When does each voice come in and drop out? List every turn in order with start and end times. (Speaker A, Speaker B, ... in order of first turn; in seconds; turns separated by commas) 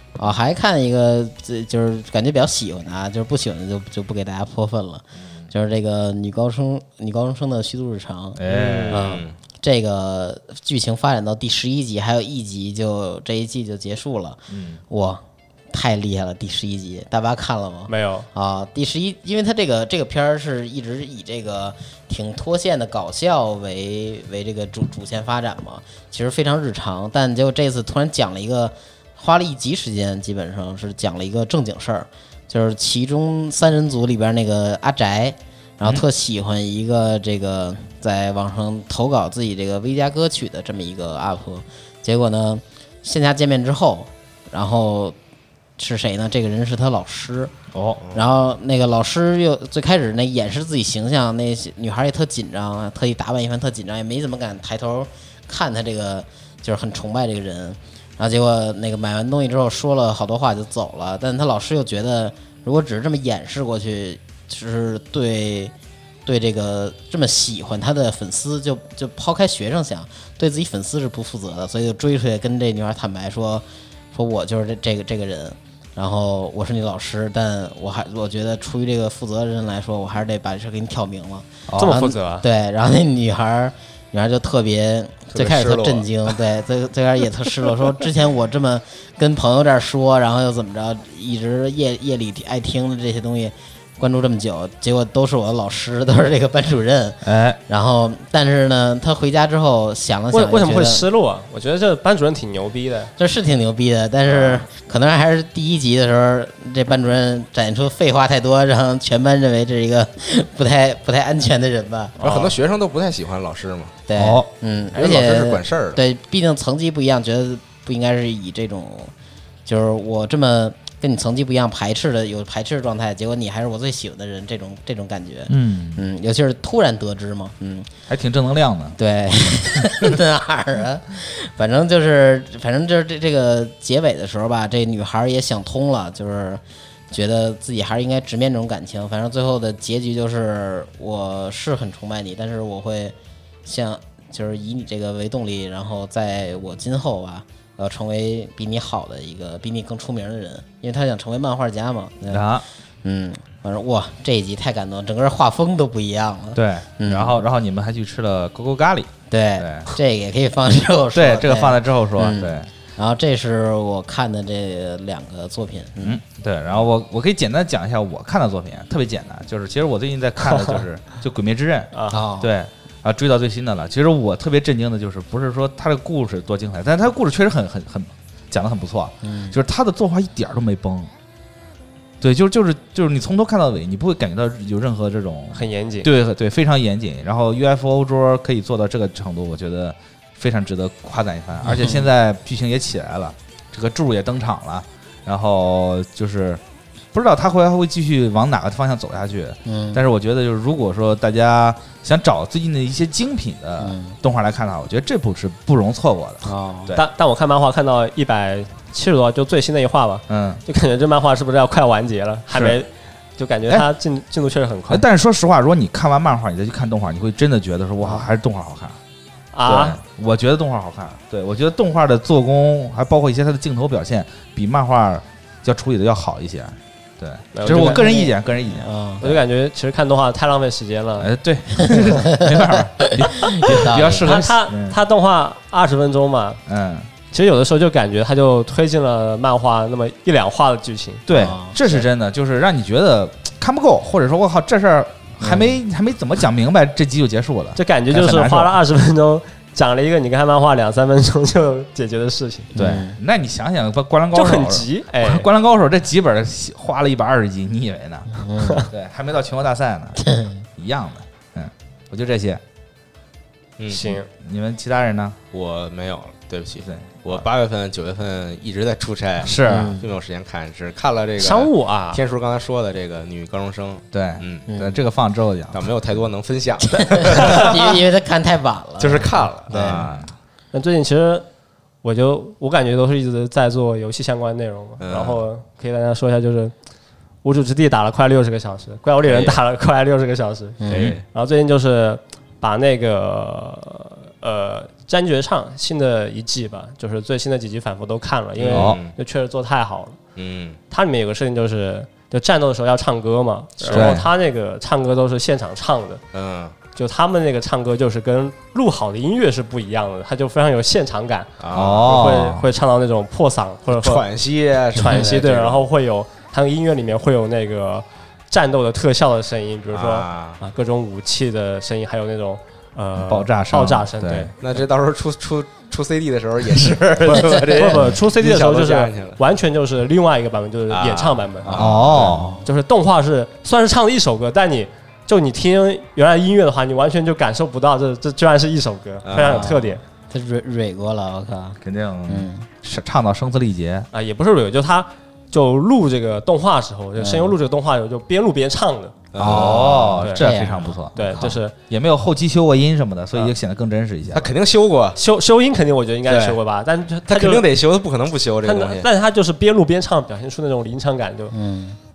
Speaker A: 0.2-8.4, Speaker B: 8.3-9.1, Speaker C: 8.5-9.3, Speaker A: 8.9-45.1, Speaker B: 14.5-14.8, Speaker D: 17.9-18.2, Speaker A: 45.8-47.5, Speaker B: 47.7-48.0, Speaker A: 48.1-65.7, Speaker A: 66.2-101.0, Speaker B: 81.7-82.0, Speaker D: 81.8-82.5, Speaker C: 85.3-86.1, Speaker B: 97.2-97.6, Speaker D: 100.3-103.1, Speaker A: 103.2-112.2, Speaker D: 112.2-112.5, Speaker C: 112.2-114.0, Speaker A: 114.1-119.1, Speaker B: 114.2-114.5, Speaker C: 114.9-116.0, Speaker A: 119.7-127.9, Speaker B: 125.5-126.1, Speaker B: 128.1-129.0, Speaker A: 129.0-157.4, Speaker B: 129.8-130.1, Speaker B: 152.3-152.6, Speaker B: 156.6-159.9, Speaker A: 159.3-166.2, Speaker B: 161.1-162.7, Speaker B: 166.0-181.1, Speaker D: 171.9-172.2, Speaker A: 172.1-172.5, Speaker A: 179.2-179.6, Speaker B: 182.2-196.6, Speaker D: 185.5-186.1, Speaker A: 191.6-192.1, Speaker B: 197.1-207.0, Speaker A: 199.7-200.0, Speaker A: 203.8-204.2, Speaker A: 206.4-206.9, Speaker D: 206.9-215.0, Speaker B: 210.3-210.6, Speaker B: 212.5-212.8, Speaker B: 214.9-219.0, Speaker D: 219.5-220.0, Speaker B: 219.7-229.4, Speaker D: 227.5-228.1, Speaker A: 227.8-229.2, Speaker D: 229.2-231.3, Speaker B: 231.2-235.0, Speaker A: 231.8-234.3, Speaker D: 234.2-236.6, Speaker B: 236.7-237.1, Speaker D: 237.3-241.2, Speaker B: 241.3-248.8, Speaker A: 241.3-242.1, Speaker A: 245.4-245.8, Speaker D: 247.8-252.7, Speaker A: 252.7-253.2, Speaker B: 252.8-260.2, Speaker D: 254.3-255.5, Speaker A: 258.3-258.9, Speaker B: 260.8-262.6, Speaker C: 263.8-264.2, Speaker D: 263.9-264.3, Speaker B: 264.3-265.4, Speaker C: 265.5-274.6, Speaker B: 266.8-267.1, Speaker B: 269.4-270.0, Speaker A: 269.6-270.1, Speaker D: 271.4-272.2, Speaker B: 274.1-275.9, Speaker A: 274.7-275.0, Speaker C: 275.7-278.0, Speaker A: 277.0-280.0, Speaker C: 279.0-280.2, Speaker B: 279.7-280.3, Speaker D: 280.7-281.4, Speaker D: 282.0-286.7, Speaker C: 285.0-285.4, Speaker D: 287.4-300.2, Speaker C: 289.2-289.6, Speaker A: 290.8-291.1, Speaker C: 290.9-291.2, Speaker B: 290.9-291.2, Speaker C: 298.6-299.1, Speaker B: 298.7-299.0, Speaker C: 300.4-300.8, Speaker D: 300.9-306.2, Speaker C: 303.8-304.1, Speaker B: 303.9-304.3, Speaker C: 306.3-306.7, Speaker D: 306.9-314.2, Speaker C: 311.6-312.0, Speaker B: 311.7-312.6, Speaker C: 313.9-315.8, Speaker D: 314.9-324.5, Speaker A: 315.0-315.3, Speaker C: 319.9-320.6, Speaker B: 323.2-324.5, Speaker C: 324.6-329.4, Speaker D: 327.4-331.8, Speaker C: 330.9-332.3, Speaker A: 331.7-332.6, Speaker B: 331.7-332.6, Speaker D: 332.6-340.0, Speaker C: 339.2-339.7, Speaker A: 339.4-342.7, Speaker B: 341.8-344.1, Speaker D: 344.1-349.3, Speaker A: 347.2-347.5, Speaker C: 349.3-350.0, Speaker B: 349.4-354.5, Speaker A: 349.4-351.5, Speaker D: 350.2-350.5, Speaker D: 351.1-351.7, Speaker C: 354.3-355.2, Speaker D: 355.1-357.6, Speaker C: 356.3-356.6, Speaker C: 357.3-359.1, Speaker D: 358.6-361.5, Speaker A: 361.5-362.0